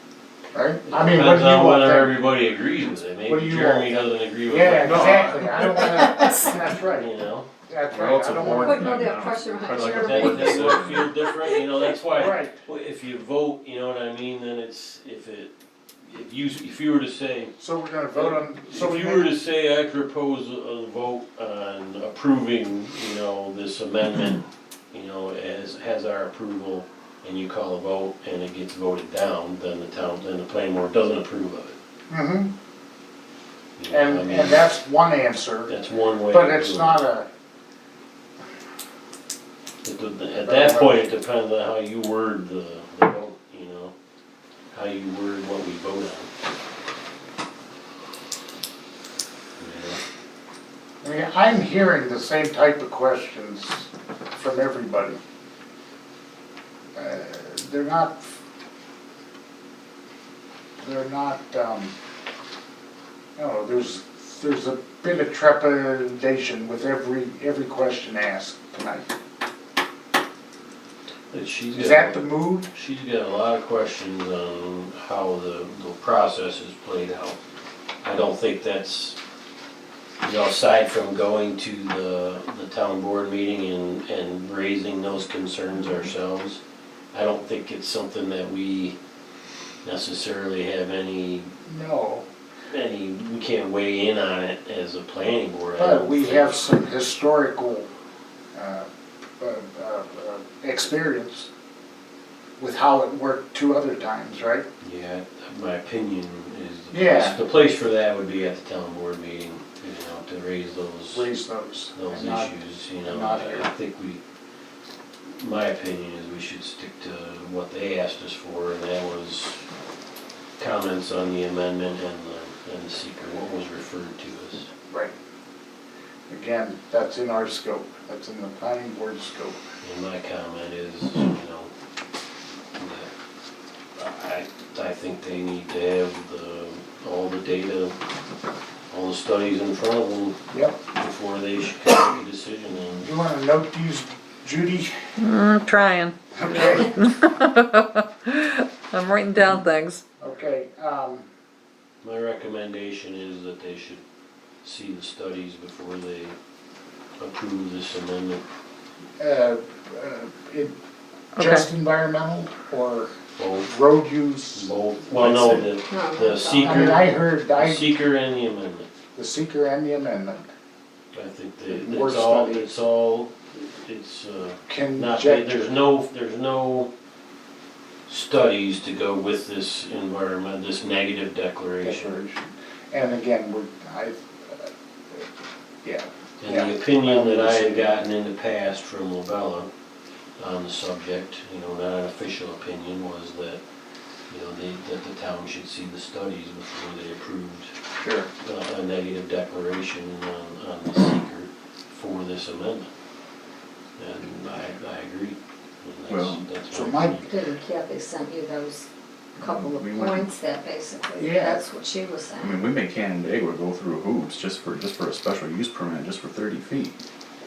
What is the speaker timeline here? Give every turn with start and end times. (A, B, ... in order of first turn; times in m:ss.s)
0:00.5-0:02.2 A
0:00.9-0:05.4 B
0:03.3-0:07.1 A
0:04.8-0:05.6 C
0:05.6-0:06.6 D
0:06.9-0:07.5 B
0:07.7-0:09.0 A
0:07.9-0:11.1 C
0:08.4-0:11.5 D
0:09.8-0:15.5 B
0:12.1-0:12.6 A
0:16.0-0:17.6 B
0:17.6-0:19.3 A
0:18.1-0:31.8 B
0:32.1-0:32.5 A
0:33.8-0:34.7 B
0:33.9-0:35.8 A
0:35.7-0:37.0 B
0:36.3-0:37.3 A
0:39.8-0:43.9 B
0:40.4-0:41.0 A
0:44.7-0:46.3 B
0:49.6-0:50.0 B
0:51.0-0:55.2 A
0:57.0-0:58.4 A
1:00.8-1:01.9 A
1:03.4-1:09.1 A
1:11.3-1:17.4 B
1:11.8-1:12.7 A
1:18.0-1:19.2 B
1:20.2-1:26.6 B
1:27.1-1:29.0 B
1:29.8-1:31.5 B
1:31.7-1:32.3 A
1:32.7-1:36.6 B
1:35.8-1:37.9 A
1:38.6-1:38.9 A
1:39.4-1:41.5 A
1:42.6-1:44.7 A
1:44.8-1:51.3 B
1:46.9-1:47.4 A
1:51.1-1:53.7 A
1:51.9-1:54.2 B
1:55.4-1:59.6 B
2:00.6-2:04.7 B
2:06.3-2:09.6 A
2:09.8-2:11.7 B
2:12.8-2:13.1 B
2:14.0-2:18.0 B
2:18.9-2:20.4 B
2:20.5-2:20.8 A
2:20.9-2:23.1 B
2:23.0-2:25.0 A
2:25.2-2:30.0 E
2:26.4-2:27.0 A
2:30.2-2:31.3 A
2:32.0-2:34.0 B
2:34.6-2:36.4 B
2:37.2-2:38.4 B
2:39.2-2:40.8 A
2:41.4-2:41.7 E
2:41.4-2:45.7 A
2:43.4-2:43.7 B
2:44.6-2:48.9 B
2:45.9-2:47.1 D
2:46.6-2:47.9 A
2:49.2-2:50.4 A
2:51.1-2:56.9 B
2:51.7-2:52.7 A
2:54.7-2:55.5 A
2:58.1-3:02.1 B
3:01.8-3:05.3 A
3:05.8-3:07.9 A
3:06.4-3:09.7 B
3:10.4-3:13.6 B
3:14.3-3:17.7 B
3:18.0-3:18.3 A
3:18.4-3:22.9 B
3:24.0-3:27.3 B
3:26.1-3:26.5 C
3:26.7-3:27.2 A
3:27.3-3:32.6 D
3:29.4-3:30.2 C
3:31.2-3:31.6 A
3:32.4-3:37.0 C